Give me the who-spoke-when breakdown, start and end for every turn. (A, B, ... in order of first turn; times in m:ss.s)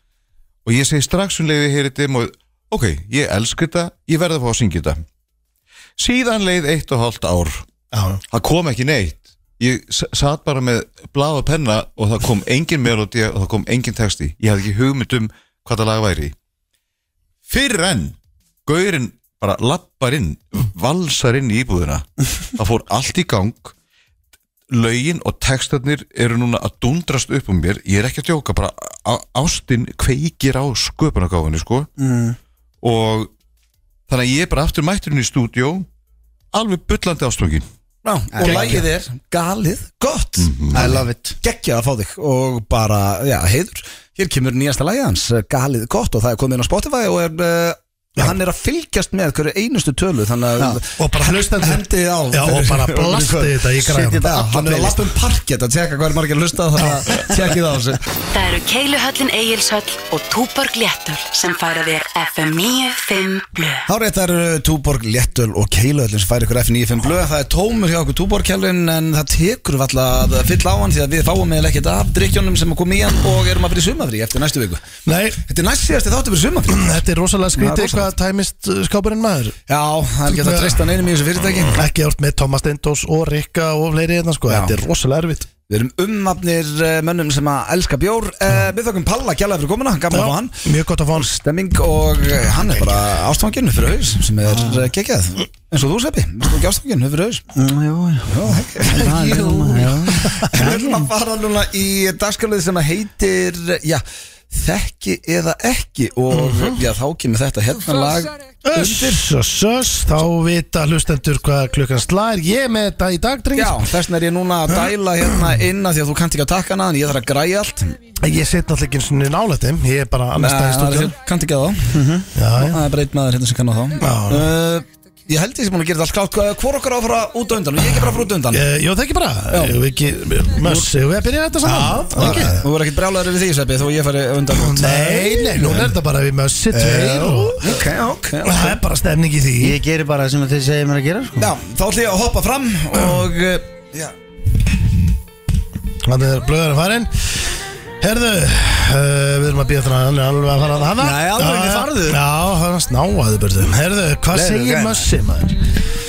0:00.6-0:05.0 A
0:06.0-0:07.6 A
0:07.9-0:08.2 B
0:08.3-0:16.3 A
0:17.5-0:23.7 A
0:24.7-0:31.9 A
0:32.0-0:32.4 C
0:32.8-0:33.3 A
0:34.1-0:35.8 A
0:36.5-0:37.7 A
0:38.0-0:58.0 D
0:38.3-0:38.8 C
0:40.4-0:41.0 A
0:40.7-0:41.4 C
0:51.0-0:54.3 B
0:53.8-0:55.1 C
0:58.3-1:03.9 E
1:03.9-1:14.8 D
1:15.0-1:15.4 B
1:15.4-1:16.9 D
1:16.7-1:19.6 B
1:17.6-1:18.1 D
1:19.7-1:21.8 D
1:20.2-1:20.8 B
1:21.7-1:25.5 B
1:24.5-1:24.8 D
1:25.7-1:37.4 D
1:30.1-1:31.3 B
1:37.5-1:41.1 C
1:38.3-1:49.2 D
1:38.9-1:40.5 B
1:46.3-1:46.8 B
1:48.6-1:53.8 B
1:53.5-1:58.0 D
1:58.2-2:01.2 B
2:00.4-2:02.0 D
2:01.9-2:02.3 C
2:02.3-2:02.8 B
2:02.6-2:08.7 D
2:04.0-2:04.5 B
2:08.5-2:12.6 B
2:09.5-2:09.8 D
2:11.6-2:12.5 C
2:11.8-2:15.9 D
2:14.5-2:17.8 B
2:16.7-2:17.6 C
2:17.6-2:18.8 D
2:18.4-2:19.8 B
2:19.6-2:21.5 C
2:21.4-2:24.1 D
2:26.0-2:35.6 B
2:31.0-2:32.2 C
2:34.3-2:35.1 C